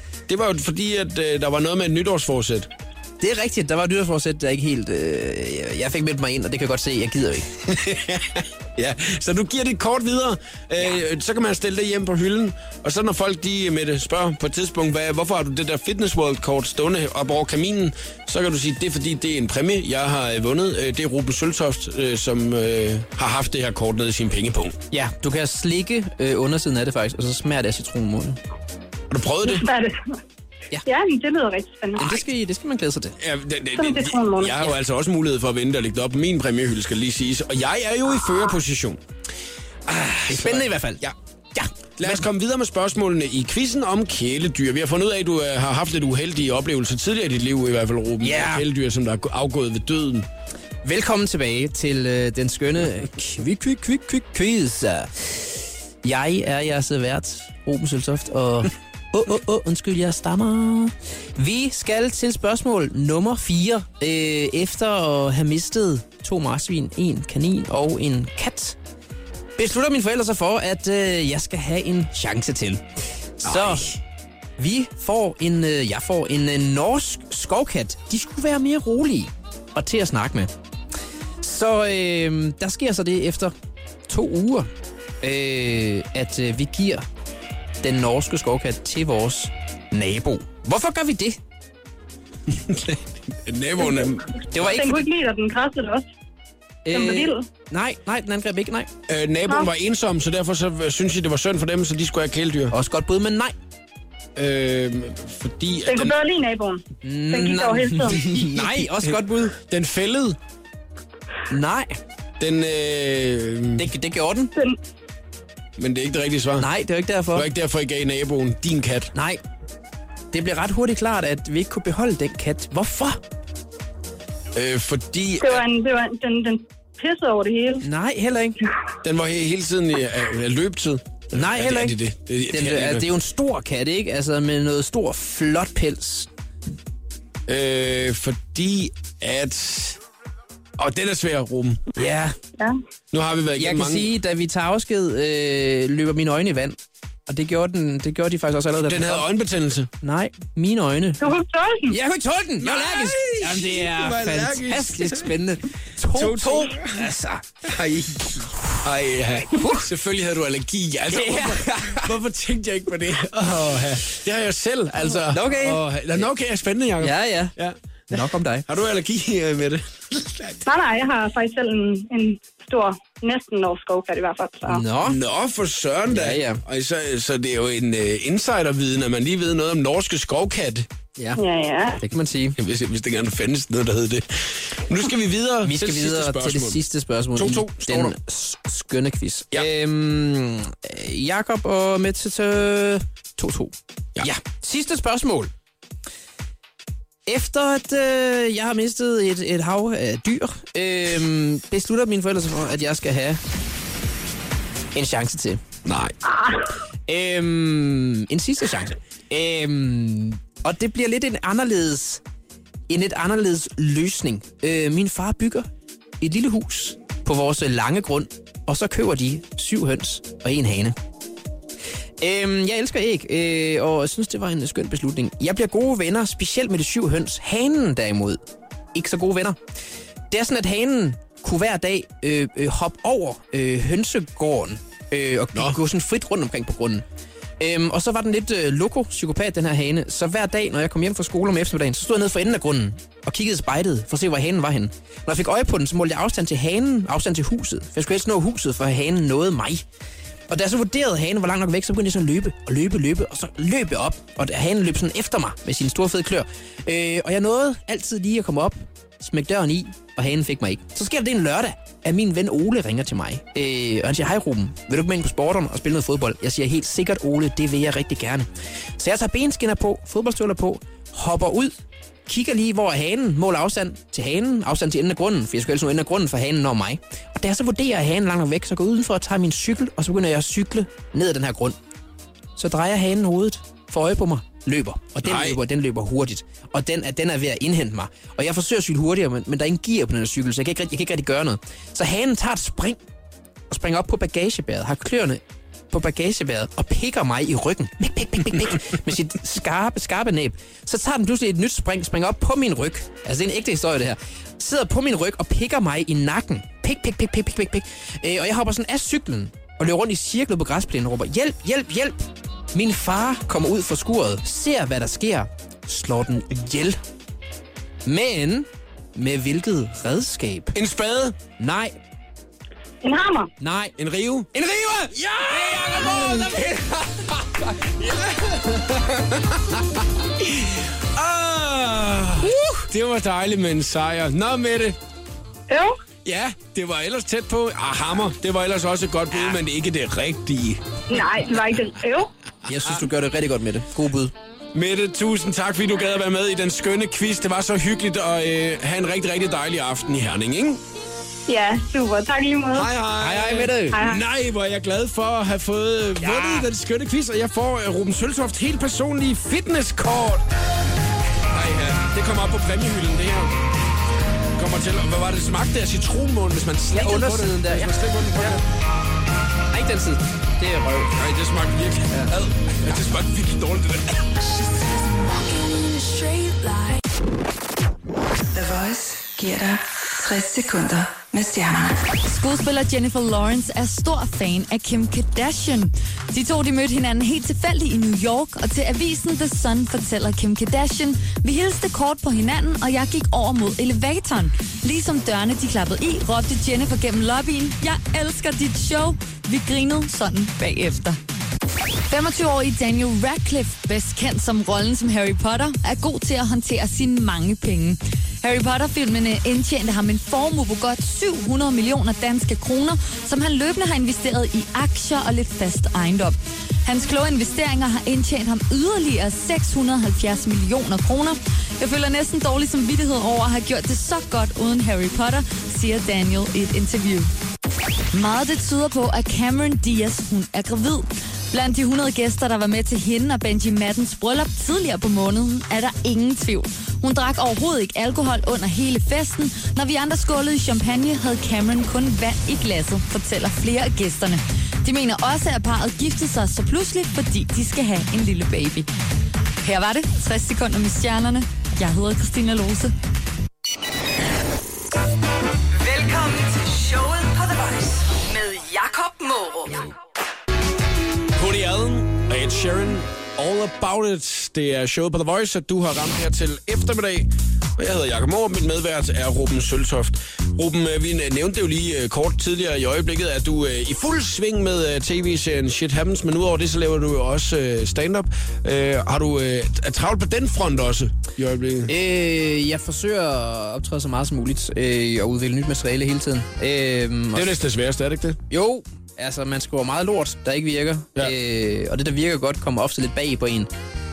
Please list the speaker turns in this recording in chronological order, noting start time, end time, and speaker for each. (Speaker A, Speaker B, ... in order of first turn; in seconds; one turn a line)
Speaker A: 0.3-2.7
Speaker B: 3.2-7.5
Speaker A: 7.7-24.8
Speaker B: 24.9-28.4
Speaker A: 29.1-29.7
Speaker C: 29.5-30.2
Speaker C: 30.9-32.2
Speaker B: 32.0-33.2
Speaker A: 33.2-39.0
Speaker C: 33.8-34.6
Speaker A: 39.9-41.1
Speaker B: 40.0-41.0
Speaker B: 41.5-42.2
Speaker A: 42.0-50.3
Speaker B: 48.2-48.6
Speaker B: 50.8-68.8
Speaker B: 69.6-72.8
Speaker B: 73.4-73.9
Speaker A: 73.4-74.0
Speaker B: 74.6-80.5
Speaker B: 81.4-83.5
Speaker B: 84.1-84.7
Speaker B: 85.2-87.0
Speaker B: 87.8-91.4
Speaker A: 92.5-94.5
Speaker B: 94.5-95.1
Speaker C: 94.6-96.1
Speaker B: 96.8-98.9
Speaker C: 96.9-97.5
Speaker A: 99.1-102.7
Speaker B: 102.7-103.5
Speaker A: 104.4-106.2
Speaker C: 105.9-108.2
Speaker B: 107.0-109.6
Speaker A: 108.3-110.4
Speaker B: 111.5-112.0
Speaker A: 112.4-113.8
Speaker B: 113.8-114.5
Speaker A: 115.8-116.7
Speaker B: 116.6-117.5
Speaker A: 117.3-119.1
Speaker B: 119.1-119.4
Speaker B: 120.3-123.2
Speaker A: 124.5-125.7
Speaker C: 125.4-127.8
Speaker B: 127.8-128.6
Speaker A: 129.0-133.1
Speaker B: 131.3-132.0
Speaker B: 132.5-136.3
Speaker A: 137.5-140.0
Speaker A: 140.8-141.8
Speaker B: 142.0-142.4
Speaker A: 143.1-144.1
Speaker B: 143.6-149.3
Speaker A: 148.8-149.9
Speaker B: 150.0-151.3
Speaker C: 151.2-152.0
Speaker B: 151.9-157.5
Speaker A: 152.6-155.3
Speaker A: 156.1-157.1
Speaker A: 157.6-170.7
Speaker B: 159.6-159.9
Speaker B: 161.1-162.1
Speaker B: 165.3-165.8
Speaker B: 167.0-167.6
Speaker B: 168.1-168.7
Speaker C: 170.7-174.8
Speaker B: 174.7-175.2
Speaker A: 175.1-180.9
Speaker B: 176.1-176.6
Speaker B: 181.2-181.4
Speaker C: 181.4-182.0
Speaker B: 182.0-182.6
Speaker A: 182.6-186.8
Speaker B: 185.6-195.5
Speaker A: 187.3-188.2
Speaker B: 197.3-203.4
Speaker B: 204.9-205.6
Speaker A: 205.8-206.2
Speaker C: 206.3-206.7
Speaker B: 207.1-212.2
Speaker B: 212.9-215.7
Speaker B: 216.2-221.0
Speaker B: 222.2-228.4
Speaker B: 228.9-229.6
Speaker B: 230.3-237.1
Speaker B: 237.6-249.8
Speaker B: 250.5-268.5
Speaker B: 269.0-271.7
Speaker B: 272.3-281.8
Speaker B: 282.6-293.0
Speaker A: 285.2-285.6
Speaker B: 293.7-317.0
Speaker B: 318.1-320.8
Speaker A: 320.8-321.4
Speaker B: 321.6-321.9
Speaker C: 323.0-323.5
Speaker B: 323.6-323.9
Speaker A: 324.0-324.5
Speaker B: 324.5-327.5
Speaker A: 325.4-326.8
Speaker A: 327.6-335.0
Speaker B: 332.4-332.9
Speaker C: 335.7-336.0
Speaker A: 336.2-341.0
Speaker C: 341.1-342.3
Speaker B: 342.7-344.3
Speaker A: 344.7-350.8
Speaker C: 351.5-352.9
Speaker A: 352.7-360.5
Speaker B: 353.2-354.0
Speaker C: 353.9-354.2
Speaker B: 356.2-356.7
Speaker A: 361.5-363.6
Speaker A: 364.6-368.6
Speaker B: 366.9-368.6
Speaker B: 369.7-371.2
Speaker A: 371.1-374.4
Speaker D: 374.4-377.0
Speaker D: 378.5-382.1
Speaker E: 382.2-401.2
Speaker E: 402.1-427.3
Speaker E: 428.1-448.9
Speaker E: 449.6-452.9
Speaker D: 455.8-460.0
Speaker A: 461.4-481.9
Speaker B: 481.9-487.5
Speaker A: 487.4-488.4
Speaker B: 488.5-493.7